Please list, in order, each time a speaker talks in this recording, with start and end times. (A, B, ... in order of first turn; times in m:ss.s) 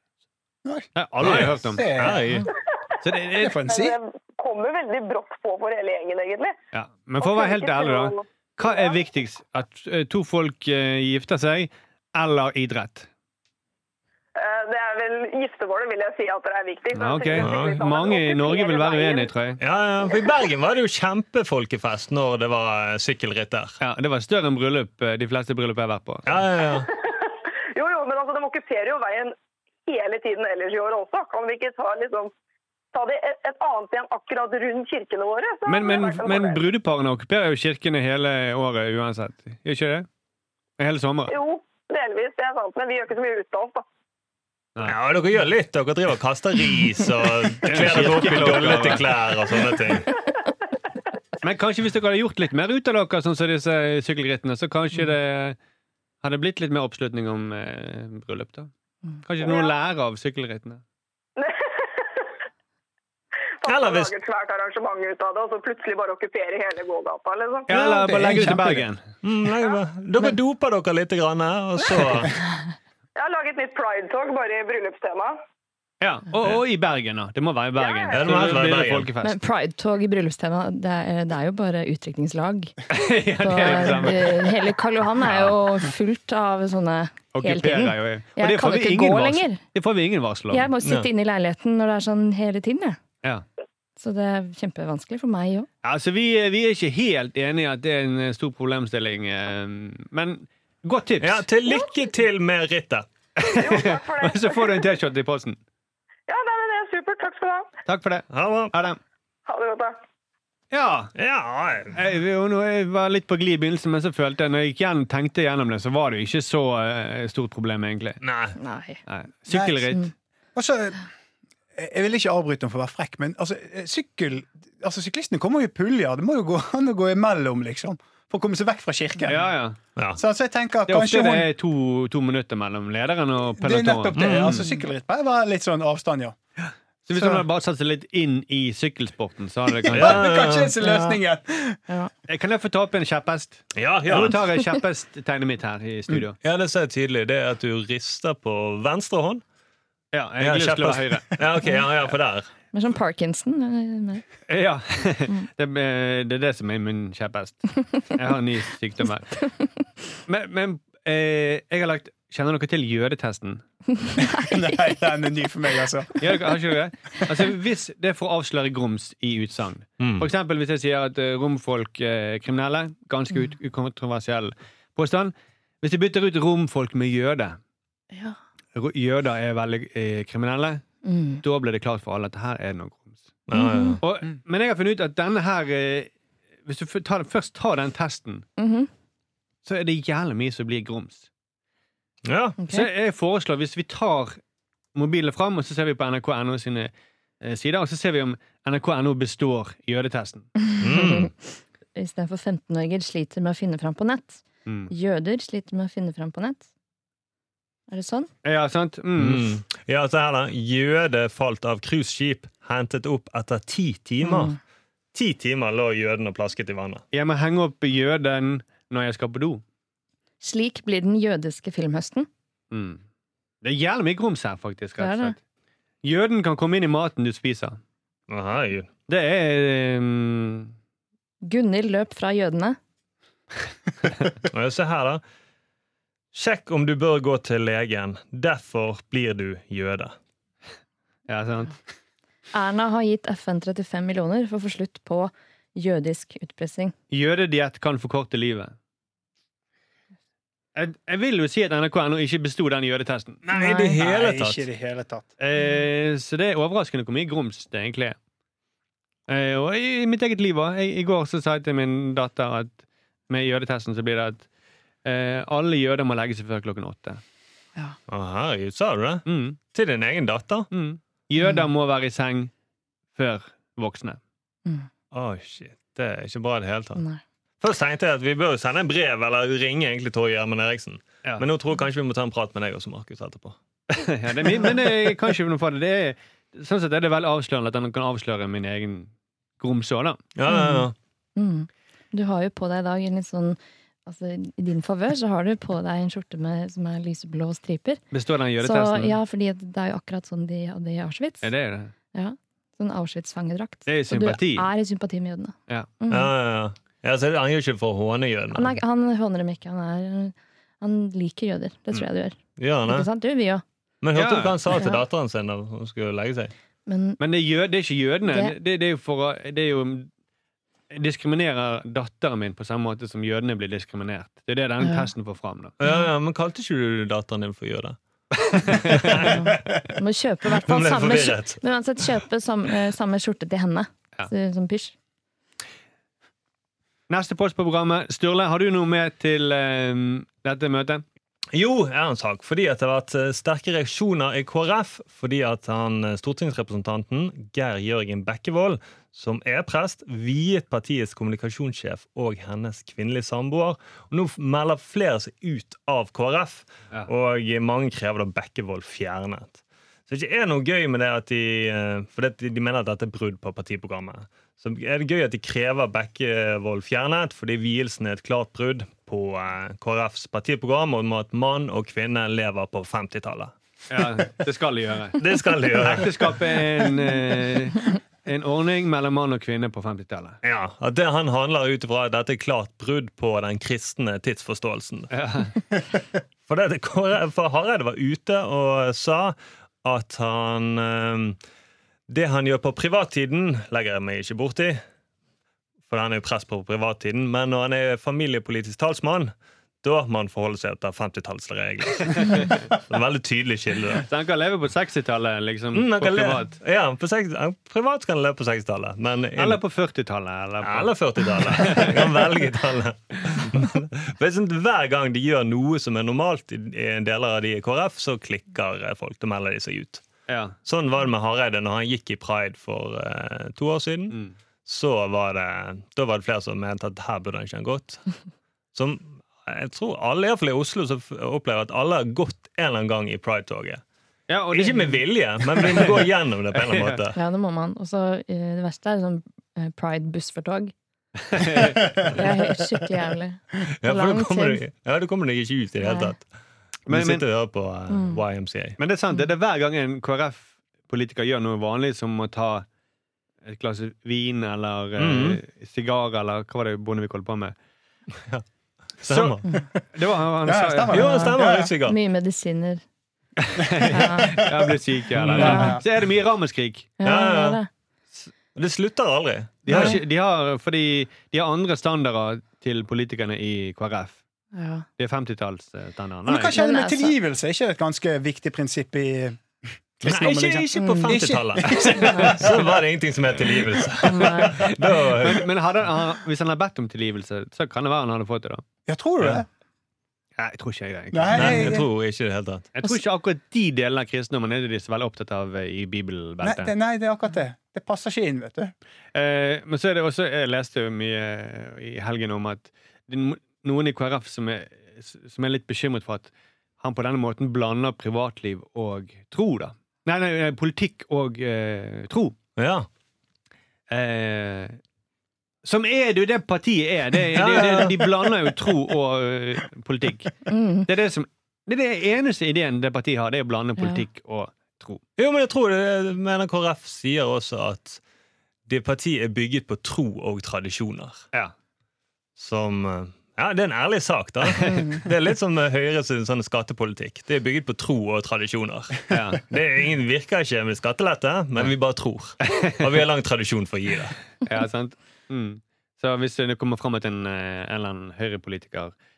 0:00.6-0:02.2 A
0:01.0-0:01.9 B
0:01.2-0:02.5 C
0:03.0-0:03.6 B
0:03.4-0:04.0 A
0:03.6-0:06.6 D
0:06.7-0:13.1 B
0:07.2-0:09.0 D
0:14.4-0:19.3 D
0:16.9-0:19.6 B
0:17.4-0:17.8 C
0:19.6-0:23.8 C
0:23.8-0:26.4 B
0:26.2-0:26.9 C
0:26.8-0:29.3 D
0:29.9-0:32.3 D
0:32.9-0:36.6 D
0:35.7-0:40.1 B
0:40.8-0:41.3 B
0:41.3-0:43.9 D
0:44.8-0:50.1 C
0:47.6-0:49.2 B
0:51.4-0:55.6 B
0:56.2-0:58.7 B
0:59.2-1:00.8 B
0:59.4-0:59.7 D
1:01.4-1:02.3 D
1:03.6-1:07.7 D
1:03.7-1:04.1 C
1:07.7-1:09.0 B
1:07.7-1:08.9 A
1:09.2-1:12.4 C
1:13.2-1:15.4 D
1:16.0-1:19.4 B
1:17.8-1:18.2 D
1:18.1-1:19.1 C
1:19.2-1:22.8 E
1:22.9-1:24.6 B
1:23.4-1:29.6 E
1:27.3-1:30.7 B
1:30.5-1:33.0 E
1:30.8-1:31.1 C
1:34.0-1:35.7 E
1:35.8-1:41.5 B
1:41.2-1:43.1 C
1:43.4-1:45.6 B
1:43.5-1:44.9 D
1:46.3-1:47.7 D
1:47.9-1:49.0 B
1:48.3-1:48.7 C
1:49.5-1:50.0 D
1:50.7-1:51.1 B
1:51.2-1:52.0 C
1:51.9-1:58.2 B
1:58.2-1:58.6 C
1:58.6-1:59.0 E
1:59.1-2:00.1 B
1:59.5-2:00.0 A
2:00.6-2:01.0 A
2:01.8-2:09.5 A
2:09.3-2:09.8 B
2:10.2-2:11.5 A
2:10.9-2:14.6 B
2:13.6-2:16.4 A
2:14.2-2:14.5 C
2:16.7-2:20.2 B
2:17.1-2:17.4 A
2:19.9-2:21.8 A
2:19.9-2:20.7 C
2:20.8-2:21.2 E
2:22.3-2:26.4 B
2:23.8-2:24.4 C
2:26.4-2:29.4 C
2:30.1-2:31.4 B
2:30.4-2:32.5 C
2:32.7-2:34.2 E
2:34.5-2:39.4 B
2:40.3-2:43.6 B
2:44.0-2:44.8 E
2:44.2-2:46.3 A
2:46.2-2:57.6 B
2:50.0-2:50.3 C
2:58.8-3:00.8 B
3:01.0-3:01.4 E
3:01.4-3:03.2 B
3:03.5-3:04.0 C
3:03.5-3:04.0 E
3:04.0-3:06.1 B
3:06.6-3:08.5 B
3:08.6-3:08.9 E
3:09.6-3:11.3 B
3:12.2-3:12.6 C
3:12.6-3:12.9 E
3:12.7-3:14.4 B
3:14.9-3:20.5 B
3:20.7-3:21.4 E
3:20.8-3:21.3 C
3:21.9-3:26.6 E
3:24.6-3:24.9 B
3:27.9-3:28.3 E
3:28.4-3:29.6 B
3:29.2-3:34.6 C
3:34.2-3:34.6 E
3:35.1-3:37.0 C
3:37.1-3:39.6 B
3:40.4-3:42.3 E
3:42.7-3:43.0 B
3:43.6-3:45.4 B
3:45.0-3:45.4 E
3:46.0-3:47.8 B
3:48.3-3:48.9 C
3:49.1-3:50.7 B
3:51.4-3:52.8 E
3:54.4-3:55.2 C
3:56.3-4:00.1 C
4:01.3-4:01.8 B
4:02.5-4:06.9 E
4:07.1-4:08.7 B
4:10.8-4:13.4 B
4:13.4-4:14.6 C
4:13.5-4:15.3 A
4:15.4-4:18.2 B
4:19.3-4:24.5 B
4:25.0-4:27.2 B
4:28.1-4:30.7 C
4:29.3-4:29.6 B
4:30.7-4:32.5 B
4:33.1-4:34.2 B
4:35.1-4:37.0 C
4:37.0-4:37.2 E
4:37.6-4:43.6 C
4:43.9-4:50.2 B
4:50.4-4:50.9 C
4:50.5-4:58.0 E
4:58.1-4:59.2 B
4:58.6-5:01.5 E
5:01.4-5:01.9 B
5:02.1-5:06.3 E
5:03.9-5:04.7 B
5:06.1-5:08.8 C
5:08.5-5:13.6 E
5:12.6-5:13.1 C
5:14.0-5:16.5 C
5:14.1-5:14.6 B
5:14.7-5:15.0 E
5:16.9-5:17.2 E
5:17.2-5:20.1 B
5:18.3-5:18.6 E
5:20.9-5:25.7 B
5:24.8-5:25.1 E
5:25.8-5:29.6 C
5:28.5-5:29.2 B
5:29.2-5:34.9 E
5:30.5-5:31.6 C
5:37.1-5:41.0 B
5:41.5-6:14.2 C
6:13.9-6:20.4 B
6:15.2-6:16.4 C
6:20.4-6:25.1 C
6:25.1-6:25.5 B
6:26.5-6:31.4 C
6:32.1-6:34.8 C
6:35.9-6:44.1 C
6:44.0-6:46.6 B
6:45.7-6:49.6 C
6:49.4-6:52.4 B
6:50.6-7:00.0 C
7:00.3-7:00.6 B
7:00.6-7:08.0 C
7:08.8-7:13.8 C
7:14.3-7:17.0 B
7:14.5-7:17.2 C
7:17.1-7:20.7 E
7:21.3-7:21.9 B
7:22.0-7:24.6 E
7:23.8-7:26.2 C
7:25.8-7:26.1 E
7:26.9-7:27.2 B
7:26.9-7:28.8 C
7:27.9-7:28.2 E
7:28.8-7:32.6 B
7:33.4-7:37.6 B
7:35.0-7:35.4 C
7:39.0-7:39.5 C
7:39.1-7:39.4 B
7:39.9-7:41.0 B
7:40.4-7:41.7 A
7:40.9-7:42.0 C
7:40.9-7:42.8 E
7:43.4-7:46.9 B
7:43.6-7:45.8 A
7:43.9-7:44.4 E
7:45.2-7:45.7 C
7:45.4-7:45.8 E
7:47.0-7:47.7 E
7:47.0-7:47.6 C
7:48.6-7:50.0 C
7:49.6-7:54.2 B
7:49.7-7:50.0 E
7:54.5-7:54.9 E
7:55.0-7:56.6 B
7:56.3-7:59.4 A
7:56.5-7:57.1 E
8:00.0-8:02.7 A
8:00.0-8:05.5 C
8:00.8-8:01.2 E
8:01.9-8:02.4 B
8:02.0-8:02.3 E
8:04.0-8:04.6 E
8:04.4-8:08.6 B
8:08.9-8:09.5 A
8:10.4-8:11.8 B
8:11.1-8:11.9 A
8:11.3-8:12.7 C
8:12.8-8:16.7 B
8:16.4-8:18.7 A
8:19.1-8:32.4 B
8:32.6-8:32.9 C
8:33.9-8:34.8 B
8:35.6-8:45.0 B
8:37.3-8:38.0 C
8:40.5-8:40.9 E
8:43.8-8:44.0 E
8:45.2-8:48.0 C
8:48.7-8:51.2 C
8:52.4-9:04.2 C
8:54.7-8:55.0 E
8:59.1-8:59.4 B
9:02.4-9:02.8 B
9:04.4-9:08.9 B